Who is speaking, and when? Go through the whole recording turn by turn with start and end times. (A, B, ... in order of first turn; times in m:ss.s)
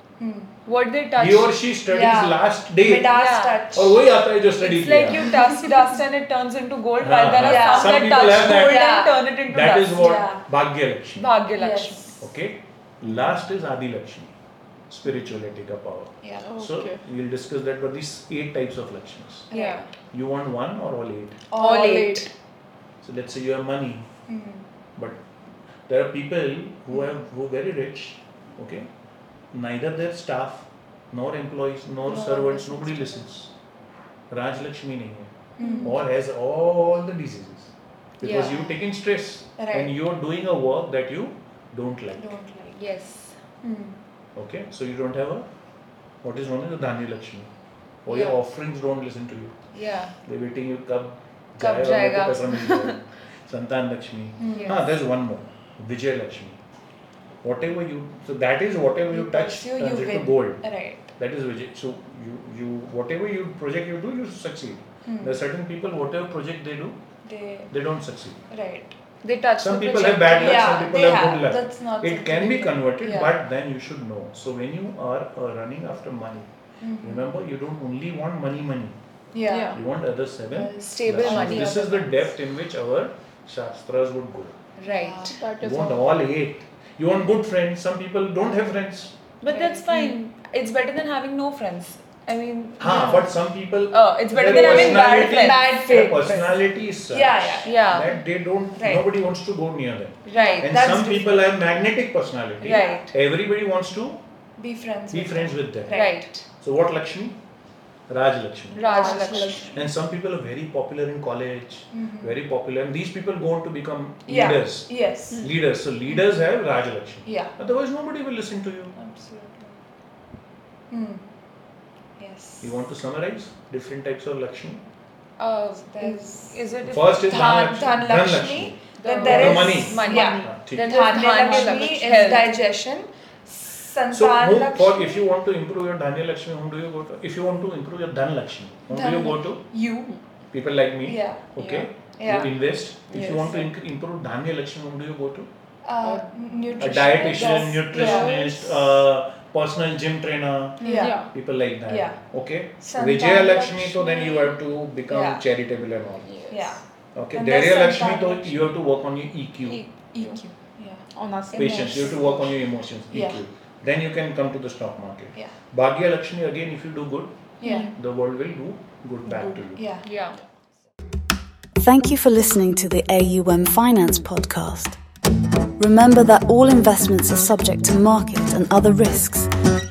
0:00.2-0:00.5 A
0:00.6-0:01.6 B
0:01.2-0:03.2 C
0:01.9-0:04.0 A
0:03.1-0:03.6 B
0:03.7-0:05.4 C
0:04.6-0:10.2 B
0:05.4-0:05.8 A
0:07.0-0:11.3 C
0:07.4-0:09.2 A
0:09.9-0:10.4 A
0:11.2-0:12.1 B
0:11.6-0:12.2 A
0:12.2-0:14.3 C
0:14.9-0:19.5 C
0:16.2-0:16.5 A
0:16.4-0:17.0 D
0:19.5-0:19.8 A
0:19.5-0:19.9 B
0:20.1-0:21.5 C
0:21.5-0:22.3 A
0:21.6-0:22.3 B
0:21.6-0:22.3 D
0:23.0-0:24.1 C
0:24.3-0:24.6 A
0:25.9-0:28.9 C
0:29.5-0:33.5 C
0:32.1-0:33.2 A
0:34.3-0:42.4 C
0:35.6-0:36.0 A
0:35.6-0:35.9 B
0:38.2-0:38.7 B
0:39.6-0:39.9 A
0:42.2-0:42.7 A
0:42.7-0:43.4 B
0:43.6-0:44.0 A
0:44.3-0:45.5 C
0:46.2-0:47.5 C
0:48.0-0:49.6 C
0:48.1-0:48.4 B
0:49.7-0:50.1 B
0:50.2-0:56.6 C
0:51.6-0:53.0 B
0:54.4-0:54.8 A
0:54.5-0:54.8 B
0:57.4-1:00.6 C
0:59.1-1:01.1 A
1:01.2-1:07.0 C
1:05.0-1:05.4 A
1:07.2-1:07.7 A
1:07.7-1:08.4 C
1:08.5-1:08.9 A
1:09.2-1:10.8 B
1:09.6-1:16.5 C
1:10.4-1:13.3 A
1:16.8-1:17.2 A
1:17.0-1:19.0 C
1:19.3-1:19.8 A
1:19.4-1:19.8 D
1:19.7-1:24.6 C
1:20.5-1:22.1 A
1:20.8-1:22.0 B
1:24.8-1:25.4 B
1:24.8-1:25.4 A
1:25.3-1:26.0 D
1:25.6-1:29.2 C
1:29.4-1:33.2 B
1:29.4-1:30.1 A
1:32.8-1:44.2 C
1:32.8-1:33.3 A
1:33.9-1:36.0 B
1:34.4-1:36.6 A
1:37.1-1:37.8 A
1:37.6-1:38.1 B
1:38.7-1:39.1 B
1:40.2-1:40.7 B
1:40.3-1:41.5 A
1:42.6-1:43.1 B
1:42.7-1:43.1 A
1:44.6-1:46.3 A
1:45.1-1:47.4 C
1:45.9-1:46.4 B
1:48.1-1:59.0 C
1:48.7-1:49.7 B
1:48.8-1:49.8 A
1:51.9-1:52.4 A
1:54.2-1:55.5 A
1:57.2-1:57.5 A
1:59.0-1:59.7 B
2:00.9-2:01.2 A
2:02.2-2:02.6 A
2:02.6-2:04.8 C
2:05.4-2:07.7 B
2:05.9-2:06.5 A
2:06.8-2:11.2 C
2:07.2-2:15.2 A
2:09.0-2:12.5 B
2:14.1-2:19.6 C
2:18.9-2:20.1 A
2:20.5-2:25.5 C
2:21.0-2:22.5 A
2:23.1-2:23.7 D
2:25.8-2:28.8 A
2:26.0-2:26.9 D
2:26.8-2:36.4 C
2:27.9-2:28.5 D
2:30.8-2:31.2 A
2:30.8-2:31.1 B
2:30.9-2:31.3 D
2:31.9-2:32.2 A
2:32.8-2:34.6 A
2:35.1-2:35.4 A
2:36.2-2:36.8 D
2:36.5-2:36.8 A
2:37.1-2:39.8 C
2:37.3-2:38.7 A
2:39.6-2:40.5 B
2:40.8-2:42.5 A
2:41.2-2:42.2 D
2:41.5-2:49.9 C
2:43.1-2:43.4 A
2:47.6-2:47.9 A
2:47.6-2:47.9 D
2:49.7-2:50.0 A
2:50.0-2:50.4 B
2:51.8-2:55.0 E
2:55.8-2:59.5 E